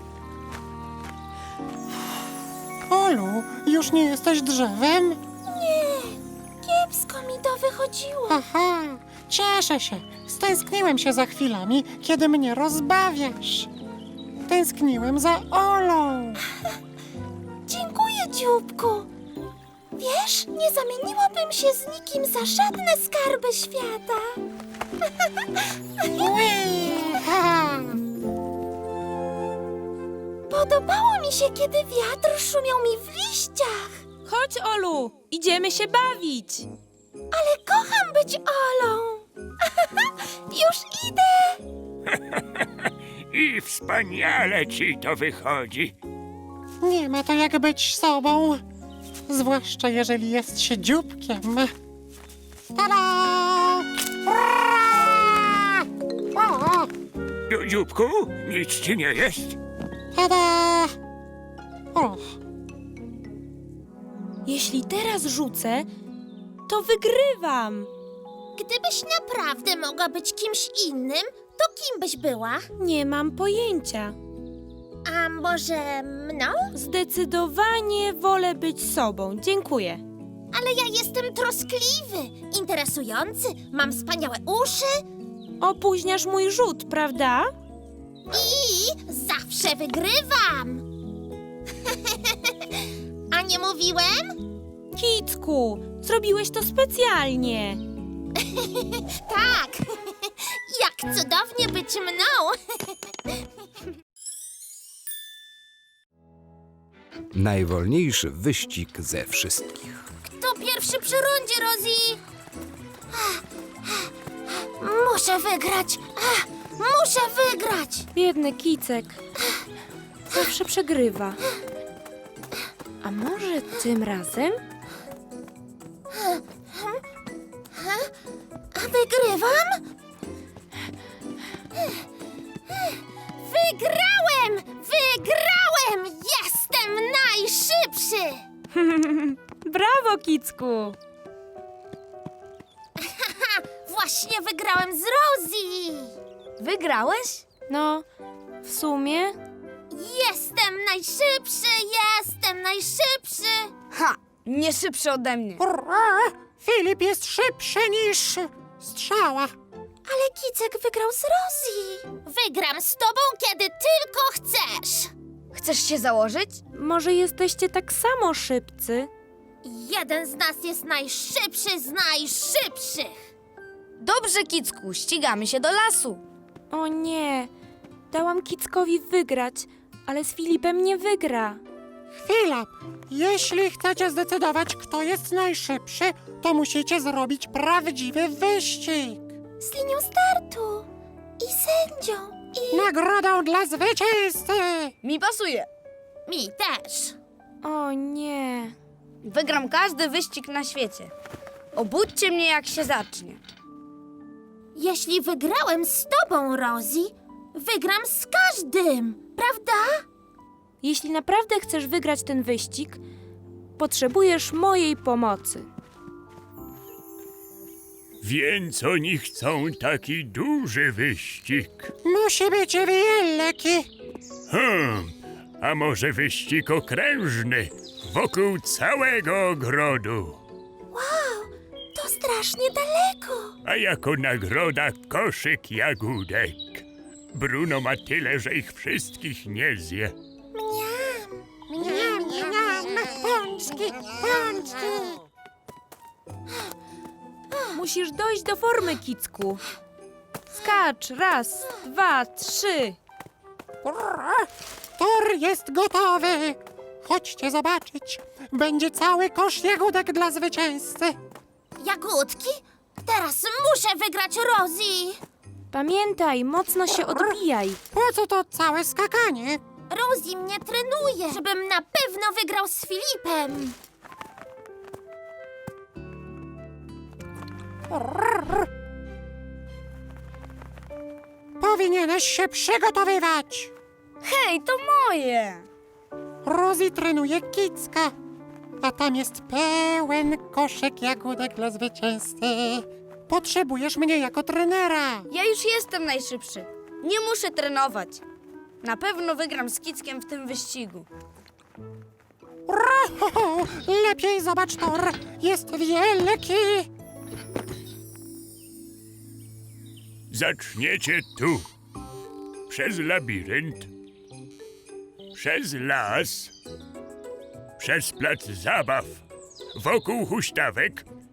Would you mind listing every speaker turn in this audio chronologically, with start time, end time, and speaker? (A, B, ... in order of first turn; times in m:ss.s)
0:02.8-0:05.2 A
0:05.4-0:08.4 B
0:08.3-0:13.7 A
0:14.4-0:16.4 A
0:17.7-0:18.2 B
0:20.0-0:24.2 B
0:26.1-0:28.0 A
0:30.5-0:34.0 B
0:34.2-0:36.7 C
0:37.3-0:39.2 B
0:40.5-0:41.5 B
0:42.1-0:42.6 D
0:43.3-0:45.9 D
0:46.8-0:48.6 A
0:49.3-0:51.7 A
0:52.7-0:56.9 A
0:57.5-0:59.6 D
1:00.1-1:00.9 A
1:01.9-1:02.3 A
1:04.4-1:05.9 C
1:06.7-1:07.9 C
1:08.6-1:12.7 B
1:12.8-1:14.1 C
1:15.0-1:16.7 B
1:16.7-1:20.0 C
1:20.5-1:25.0 B
1:25.6-1:27.5 C
1:28.3-1:30.8 B
1:33.3-1:34.4 B
1:34.9-1:37.8 C
1:38.6-1:43.0 B
1:47.3-1:50.0 E
1:50.2-1:52.2 B
1:53.1-1:58.1 B
1:58.1-1:59.2 C
2:00.3-2:01.4 C
2:03.0-2:04.6 C
2:06.1-2:07.0 B
2:07.7-2:08.1 B
2:08.7-2:09.8 B
2:11.8-2:12.0 B
2:12.7-2:18.4 B
2:18.8-2:21.0 C
2:23.0-2:26.1 B
2:26.6-2:27.4 F
2:27.7-2:28.0 C
2:28.6-2:29.4 C
2:29.9-2:33.7 B
2:33.9-2:35.6 F
2:35.6-2:39.5 A
2:40.0-2:45.1 B
2:45.5-2:46.6 F
2:46.7-2:49.1 C
2:49.6-2:53.1 B
2:54.0-2:56.2 F
2:56.7-2:57.5 C
2:58.1-3:01.6 C
3:02.1-3:09.3 A
3:09.6-3:10.8 B
3:11.4-3:12.9 B
3:12.7-3:14.9 A
3:15.0-3:15.7 F
3:16.3-3:17.1 B
3:17.6-3:18.7 C
3:19.2-3:21.1 F
3:21.7-3:23.4 F
3:24.7-3:30.0 B
3:30.8-3:33.0 C
3:33.8-3:35.7 C
3:38.2-3:41.9 D
3:42.0-3:43.9 A
3:44.5-3:50.4 D
3:50.9-3:53.5 B
3:53.6-4:00.1 D
4:00.5-4:01.4 B
4:01.7-4:05.2 A
4:07.7-4:09.6 C
4:10.5-4:13.0 C
4:13.8-4:21.2 A
4:21.8-4:25.2 B
4:25.7-4:27.8 C
4:27.9-4:29.6 A
4:29.9-4:33.7 B
4:37.9-4:38.7 A
4:41.6-4:43.7 A
4:44.2-4:45.7 F
4:46.4-4:48.1 A
4:48.8-4:55.2 A
4:55.3-4:58.2 F
4:58.8-5:01.1 F
5:02.7-5:06.9 A
5:10.3-5:11.7 D
5:12.7-5:13.9 D
5:15.3-5:16.5 D
5:17.8-5:19.2 D
5:19.7-5:21.0 D